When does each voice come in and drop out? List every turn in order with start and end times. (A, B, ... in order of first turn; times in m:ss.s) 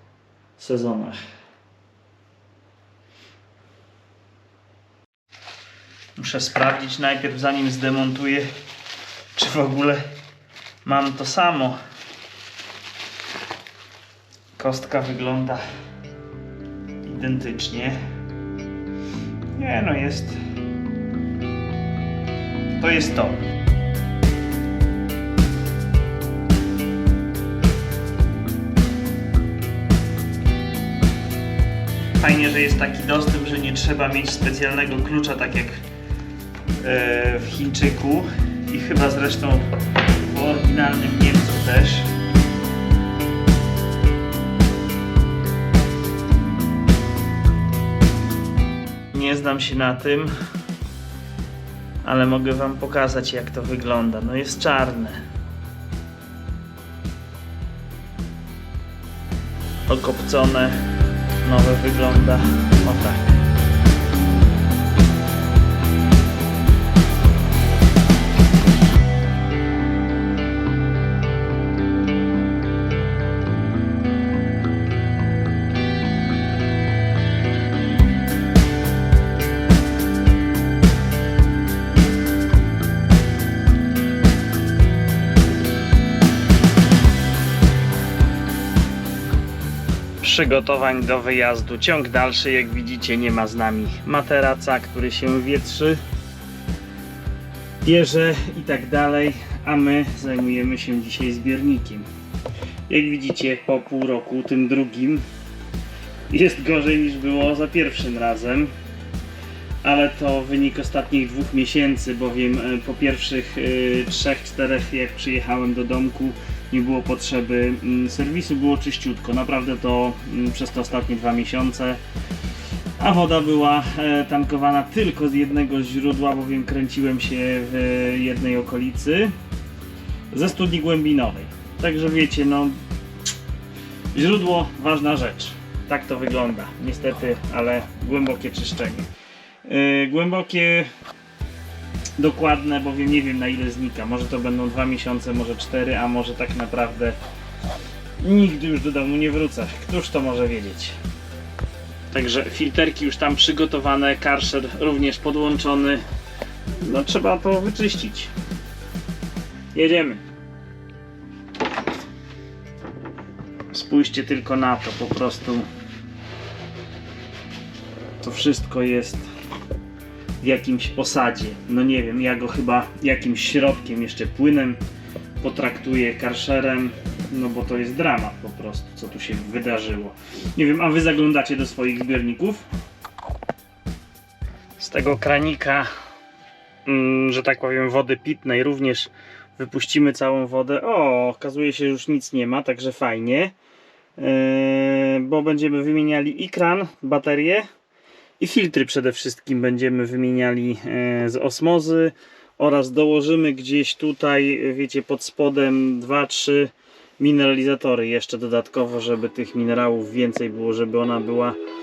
0:00.6-0:01.2 A
0:06.2-0:08.5 A
0:09.3-0:10.0 A
0:10.8-0:11.8 A
0:14.6-0:15.6 A
0:17.0-0:18.0 A
0:19.5-0:20.4 A
0:22.8-0:23.4 A
0:32.2-0:35.8 A
0:36.8-0:42.1 A
0:49.1-0:50.3 A
0:52.0-0:55.2 A
0:59.9-1:00.9 A
1:01.4-1:03.3 A
1:30.2-1:36.0 A
1:37.8-1:42.1 A
1:42.9-1:45.2 A
1:46.3-1:48.7 A
1:49.8-2:02.0 A
2:03.0-2:09.3 A
2:10.3-2:12.8 A
2:14.1-2:19.1 A
2:19.6-2:20.9 A
2:22.2-2:27.2 A
2:28.2-2:31.0 A
2:32.1-2:36.0 A
2:36.8-2:38.3 A
2:39.7-2:40.2 A
2:43.7-2:45.7 A
2:48.2-2:49.3 A
2:50.4-2:54.8 A
2:55.4-3:02.6 A
3:04.8-3:05.9 A
3:06.8-3:13.5 A
3:14.2-3:17.7 A
3:18.4-3:31.6 A